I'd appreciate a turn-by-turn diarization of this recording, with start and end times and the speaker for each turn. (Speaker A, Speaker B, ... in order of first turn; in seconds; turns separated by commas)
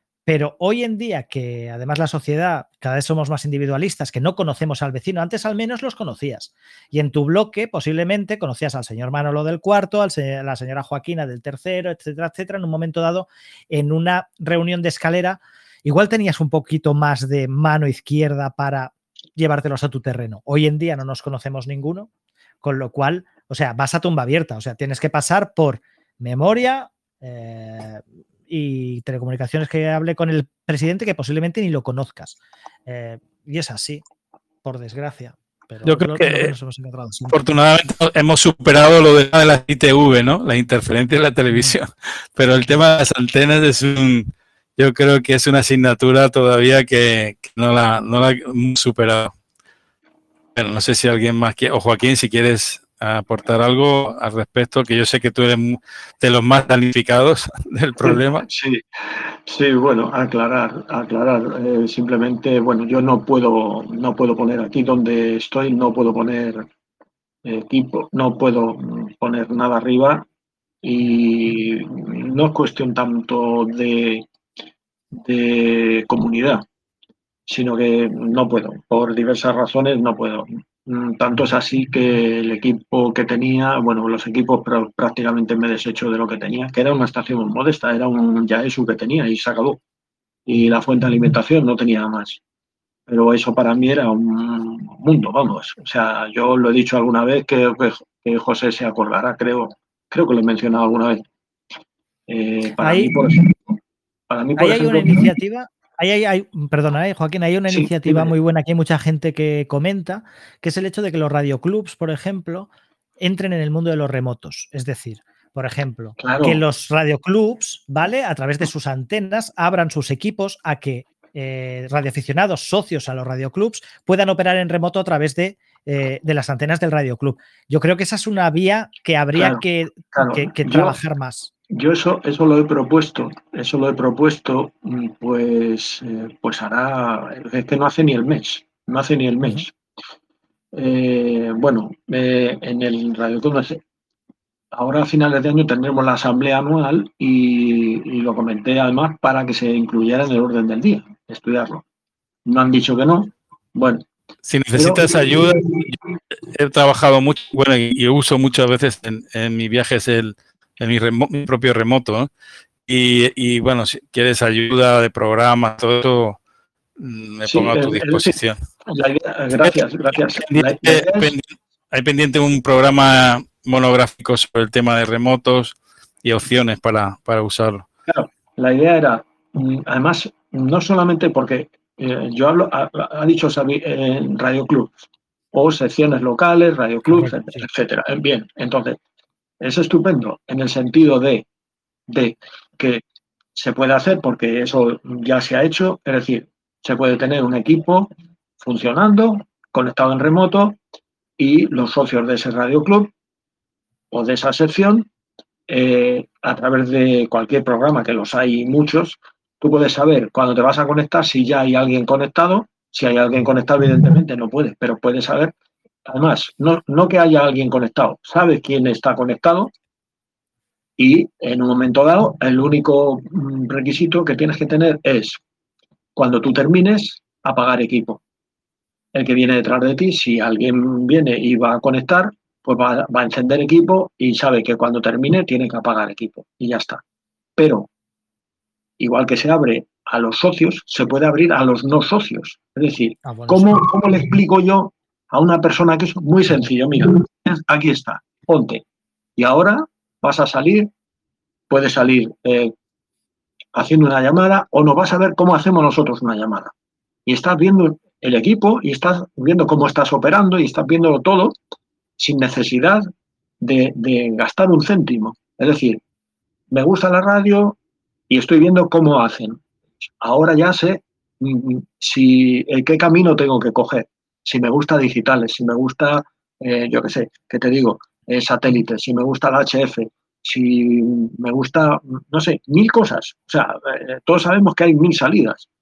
Speaker A: 0.2-22.1, Speaker A: 22.6-34.0, Speaker A: 34.6-37.4, Speaker B: 35.8-36.5, Speaker B: 37.3-49.3, Speaker A: 41.5-41.8, Speaker B: 50.5-58.4, Speaker C: 58.0-66.6, Speaker C: 67.4-70.2, Speaker C: 70.8-74.2, Speaker C: 75.1-76.6, Speaker C: 77.5-89.8, Speaker C: 90.5-92.4, Speaker C: 93.1-101.2, Speaker C: 102.3-103.8, Speaker A: 102.8-103.2, Speaker C: 104.3-105.3, Speaker A: 104.6-112.7, Speaker C: 107.7-108.3, Speaker A: 113.2-131.5, Speaker C: 116.2-116.6, Speaker C: 129.3-131.0, Speaker C: 131.7-139.7, Speaker C: 140.7-143.8, Speaker C: 144.7-151.8, Speaker C: 152.4-154.0, Speaker B: 154.4-155.9, Speaker C: 154.8-155.8, Speaker B: 156.5-162.3, Speaker B: 162.9-166.4, Speaker B: 167.0-168.6, Speaker C: 167.5-168.3, Speaker C: 168.9-171.3, Speaker B: 170.3-177.8, Speaker C: 178.1-184.9, Speaker C: 185.5-189.0, Speaker A: 187.1-187.6, Speaker C: 189.6-191.4, Speaker C: 192.1-193.0, Speaker C: 193.6-200.8, Speaker C: 201.4-203.1, Speaker C: 204.1-205.1, Speaker C: 205.7-215.5, Speaker C: 216.1-219.7, Speaker C: 221.0-225.4, Speaker C: 226.2-228.2, Speaker C: 229.1-237.0, Speaker C: 237.6-237.9, Speaker C: 239.0-248.8, Speaker A: 243.2-243.8, Speaker C: 249.4-250.9, Speaker C: 251.7-252.7, Speaker C: 253.7-256.7, Speaker C: 257.2-261.6, Speaker C: 262.2-263.1, Speaker C: 263.6-266.0, Speaker C: 266.7-267.8, Speaker C: 268.3-269.6, Speaker C: 270.2-285.7